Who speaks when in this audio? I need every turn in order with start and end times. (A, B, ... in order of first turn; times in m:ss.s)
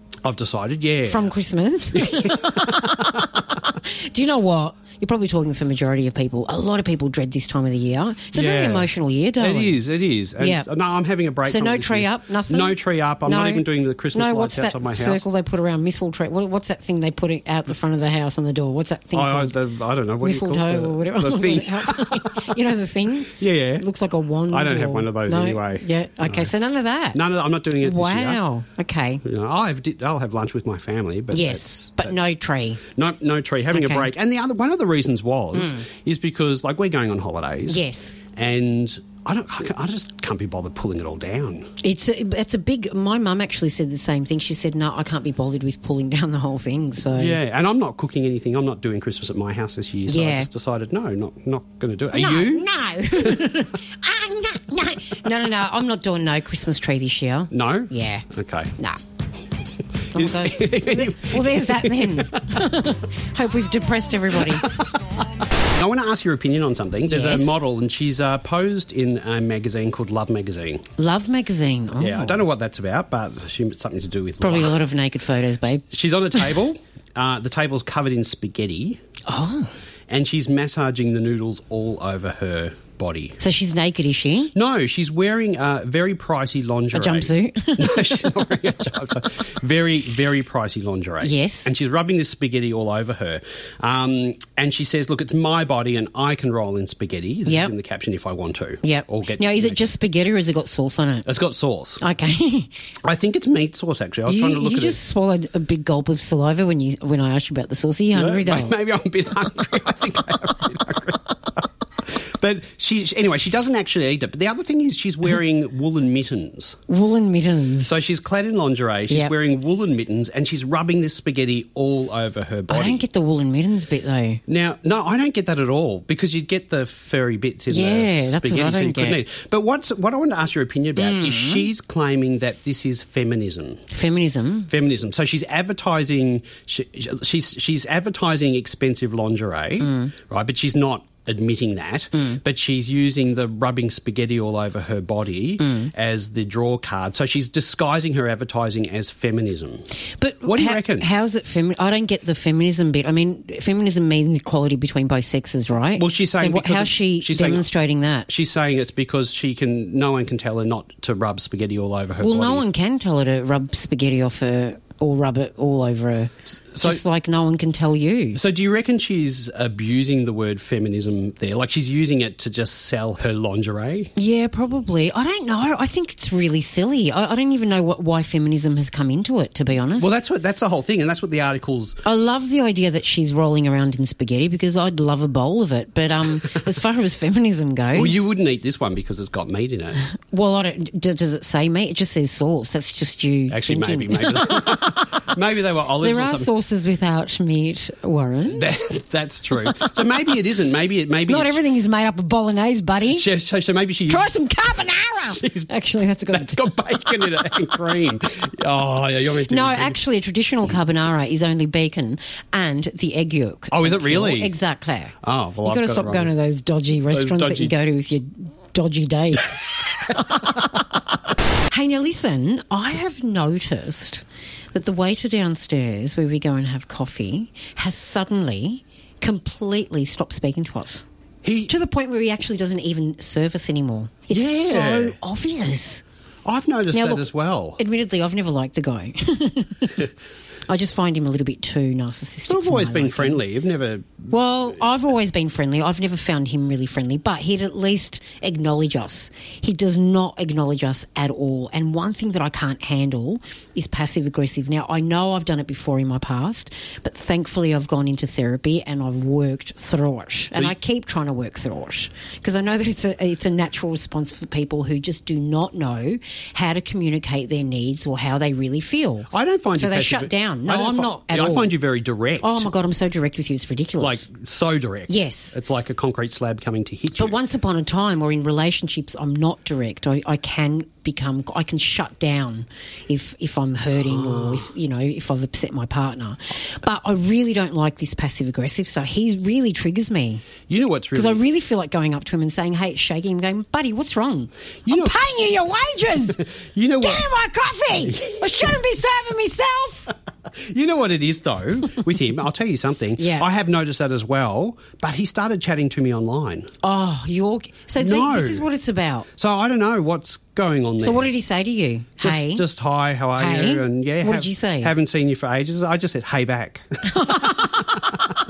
0:00.2-0:01.3 A
0:01.1-0:09.8 B
0:01.9-0:03.2 A
0:08.3-0:15.2 A
0:10.4-0:10.7 B
0:11.4-0:19.6 B
0:19.1-0:22.6 A
0:20.2-0:27.2 B
0:23.3-0:23.8 A
0:24.5-0:26.5 A
0:27.1-0:28.4 A
0:27.8-0:29.2 B
0:29.2-0:32.2 A
0:31.3-0:32.8 B
0:33.0-0:37.8 A
0:33.7-0:34.1 B
0:35.5-0:35.9 B
0:37.7-0:38.2 B
0:38.3-0:41.7 A
0:41.8-0:47.4 B
0:47.1-0:53.6 A
0:50.1-0:50.5 B
0:52.1-0:59.0 B
0:57.5-0:58.7 A
1:00.1-1:02.6 A
1:00.1-1:04.7 B
1:04.6-1:04.8 A
1:05.8-1:10.8 A
1:07.0-1:07.6 B
1:11.0-1:12.4 B
1:12.0-1:14.8 A
1:14.4-1:15.8 B
1:15.7-1:19.0 A
1:19.3-1:19.7 B
1:20.1-1:23.4 A
1:23.4-1:24.5 B
1:24.5-1:39.9 A
1:26.9-1:28.3 B
1:31.2-1:31.7 B
1:37.4-1:37.7 B
1:38.8-1:41.3 B
1:41.2-1:42.0 A
1:42.0-1:42.7 B
1:43.0-1:45.0 A
1:44.2-1:48.8 B
1:48.1-1:51.3 A
1:52.1-1:56.8 A
1:56.9-1:57.9 B
1:57.8-2:03.0 A
2:02.7-2:04.4 B
2:04.5-2:13.8 A
2:07.7-2:09.2 B
2:11.0-2:11.7 B
2:13.9-2:14.7 B
2:14.7-2:29.8 A
2:19.8-2:20.1 B
2:25.6-2:25.9 B
2:30.2-2:38.3 B
2:30.4-2:31.1 A
2:36.0-2:37.6 A
2:38.3-2:42.6 A
2:42.2-2:48.4 B
2:46.5-2:47.0 A
2:48.3-2:54.1 A
2:54.2-3:00.1 B
2:59.9-3:02.0 A
3:02.0-3:08.2 B
3:07.9-3:10.0 A
3:10.2-3:14.8 B
3:13.5-3:16.5 A
3:16.0-3:18.7 B
3:18.5-3:21.6 A
3:21.3-3:23.3 B
3:23.1-3:24.3 A
3:24.1-3:27.2 B
3:25.2-3:25.7 A
3:26.3-3:30.0 A
3:29.5-3:41.0 B
3:33.7-3:34.5 A
3:35.2-3:36.3 A
3:37.1-3:37.7 A
3:41.7-3:51.0 B
3:51.4-3:51.7 A
3:51.7-3:56.0 B
3:54.3-3:55.2 A
3:56.4-3:57.8 A
3:56.9-4:00.1 B
4:00.7-4:03.4 B
4:02.5-4:04.3 A
4:04.3-4:31.7 B
4:29.3-4:32.7 A
4:32.4-4:34.2 B
4:34.0-4:37.4 A
4:35.1-4:35.6 B
4:37.1-4:50.5 B
4:44.1-4:44.6 A
4:50.7-4:51.4 A
4:51.1-4:56.5 B
4:54.8-4:55.2 A
4:56.3-4:57.3 A
4:57.0-5:00.1 B
4:58.0-4:58.8 A
5:00.6-5:06.7 A
5:03.2-5:03.5 B
5:06.8-5:09.3 B
5:08.0-5:08.6 A
5:09.4-5:11.3 A
5:11.0-5:12.6 B
5:12.2-5:17.7 A
5:13.3-5:14.9 B
5:17.1-5:18.0 B